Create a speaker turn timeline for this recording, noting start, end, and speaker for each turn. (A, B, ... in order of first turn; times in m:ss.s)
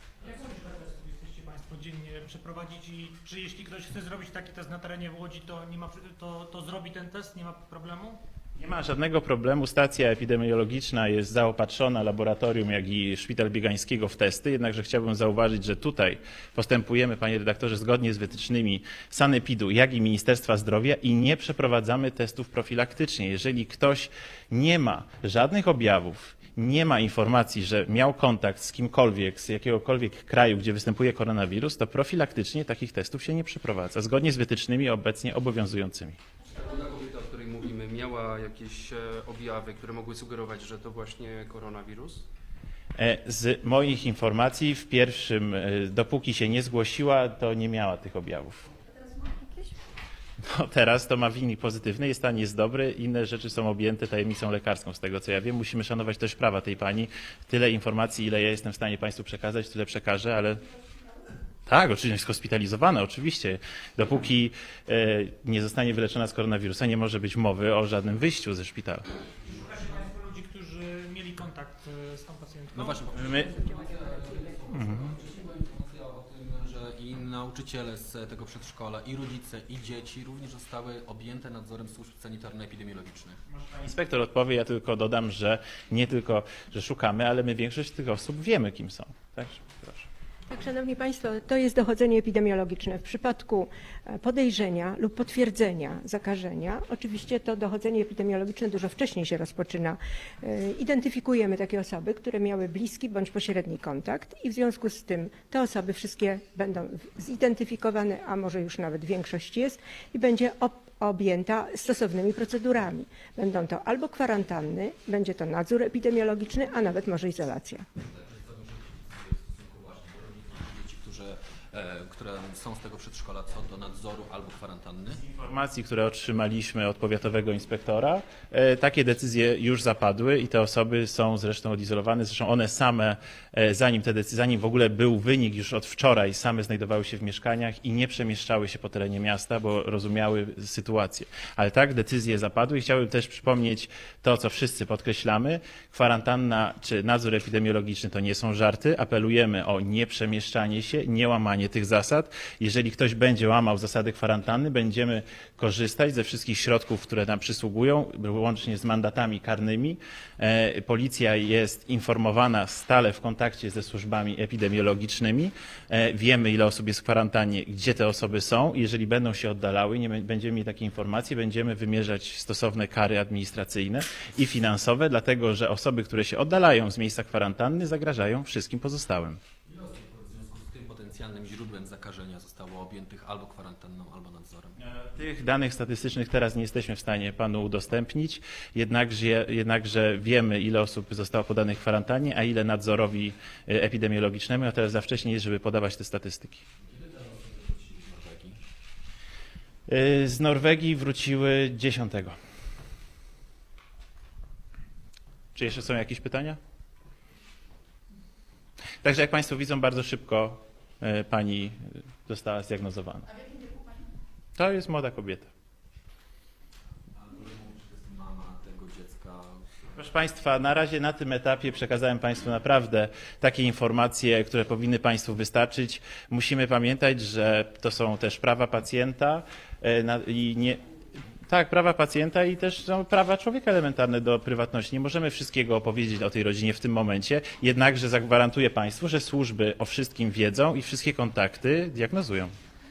0:00.2-0:08.2 A
0:08.6-0:36.2 B
0:36.5-0:42.2 C
0:43.0-0:48.6 B
0:50.4-1:00.6 B
1:01.7-1:09.0 B
1:09.6-1:13.0 A
1:12.7-1:23.4 D
1:13.2-1:13.5 B
1:14.7-1:15.1 B
1:23.5-1:30.1 B
1:30.5-1:57.8 E
1:58.0-2:05.2 D
2:05.1-2:59.4 B
2:59.6-3:04.8 D
3:04.8-3:16.6 B
3:16.8-3:18.6 D
3:19.9-3:22.4 B
3:25.5-3:26.6 B
3:29.0-3:33.3 B
3:34.6-3:35.5 B
3:37.1-3:39.8 D
3:40.0-3:50.8 B
3:51.5-4:02.5 B